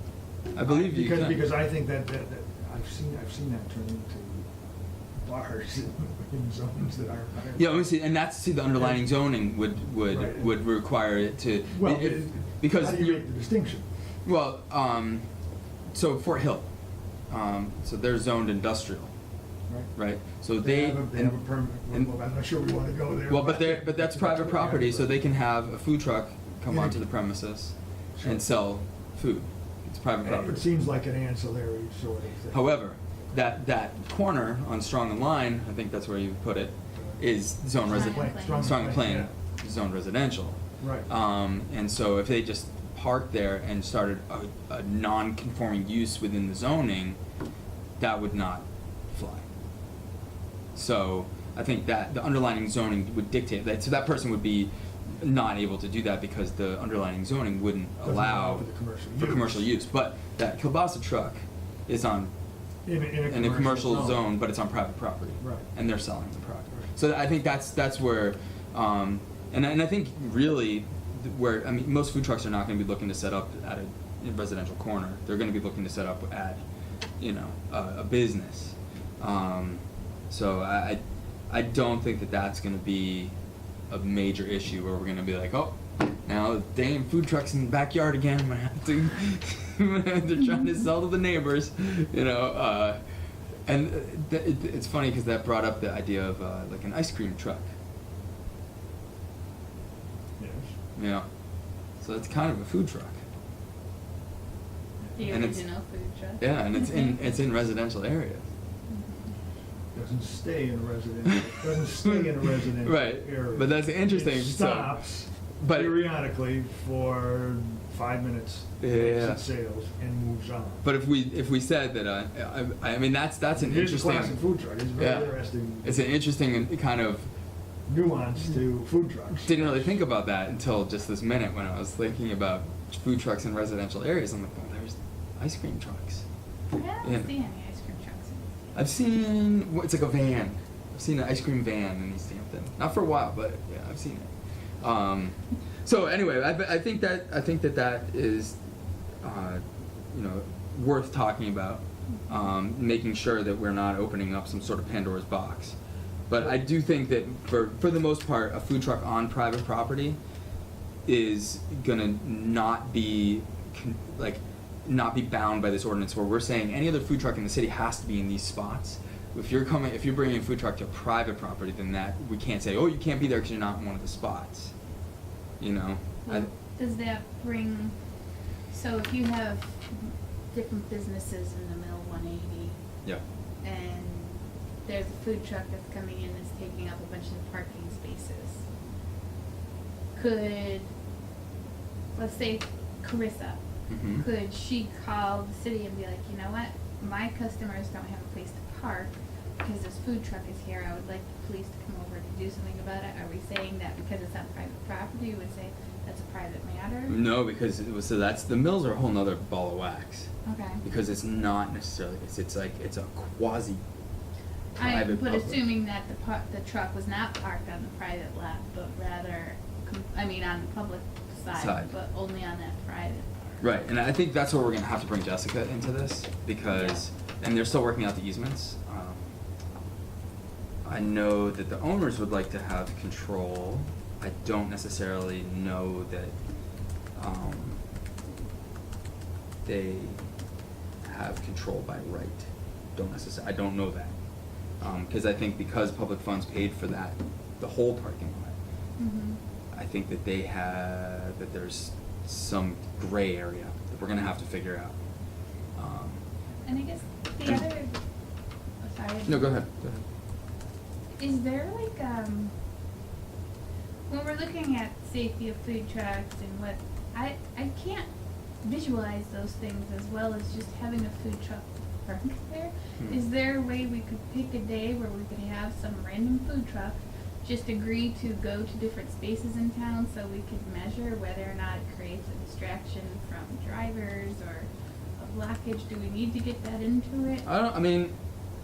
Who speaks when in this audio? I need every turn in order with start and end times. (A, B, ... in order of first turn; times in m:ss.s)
0:00.6-0:01.4 A
0:00.6-0:04.5 B
0:05.2-0:07.9 B
0:07.6-0:13.3 A
0:08.8-0:09.0 B
0:10.1-0:10.5 B
0:11.7-0:13.9 B
0:14.2-0:15.3 A
0:15.9-0:16.7 A
0:17.3-0:19.1 A
0:20.0-0:22.1 A
0:20.6-0:25.4 B
0:23.3-0:30.7 A
0:26.7-0:27.1 B
0:28.2-0:28.5 B
0:30.2-0:32.6 B
0:32.5-0:47.2 A
0:37.0-0:37.2 B
0:37.8-0:39.1 C
0:37.8-0:39.3 B
0:40.8-0:41.1 B
0:48.0-0:49.5 A
0:50.8-1:02.3 A
0:58.0-0:59.7 B
1:02.8-1:04.2 B
1:03.3-1:16.6 A
1:05.4-1:05.6 B
1:17.2-1:23.3 A
1:23.9-1:33.0 A
1:33.7-1:37.7 A
1:40.4-1:40.7 B
1:41.0-1:41.3 A
1:42.0-1:43.2 A
1:45.2-1:47.4 C
1:45.3-1:45.6 A
1:46.4-1:48.5 A
1:48.9-1:49.3 C
1:49.9-2:00.8 B
1:52.8-1:55.0 A
1:55.6-1:56.0 A
1:58.8-1:59.4 A
2:00.8-2:04.4 A
2:03.6-2:06.1 B
2:05.0-2:07.3 A
2:07.9-2:10.0 B
2:09.4-2:16.2 A
2:16.7-2:18.8 C
2:17.0-2:17.3 A
2:18.8-2:28.6 A
2:29.2-2:35.8 A
2:36.3-2:40.2 A
2:41.1-2:54.7 A
2:55.6-2:56.5 A
2:56.3-2:58.0 C
2:58.7-3:02.8 C
3:03.6-3:08.6 C
3:10.2-3:10.9 C
3:12.1-3:13.6 C
3:13.9-3:14.2 A
3:14.1-3:27.2 C
3:27.1-3:30.3 A
3:30.4-3:30.8 C
3:30.8-3:33.8 A
3:34.8-3:35.6 A
3:34.8-3:43.6 C
3:41.5-3:41.9 A
3:43.6-3:49.3 A
3:46.7-3:47.0 C
3:50.8-3:56.4 A
3:57.2-3:57.8 A
3:59.6-4:00.2 A
4:01.0-4:04.1 A
4:04.8-4:08.6 A
4:09.0-4:09.4 C
4:09.7-4:15.0 A
4:15.8-4:16.2 A
4:16.6-4:18.0 C
4:18.8-4:19.6 C
4:19.3-4:20.0 A
4:21.2-4:22.5 C
4:24.1-4:28.1 C
4:28.6-4:47.4 C
4:47.4-4:48.1 A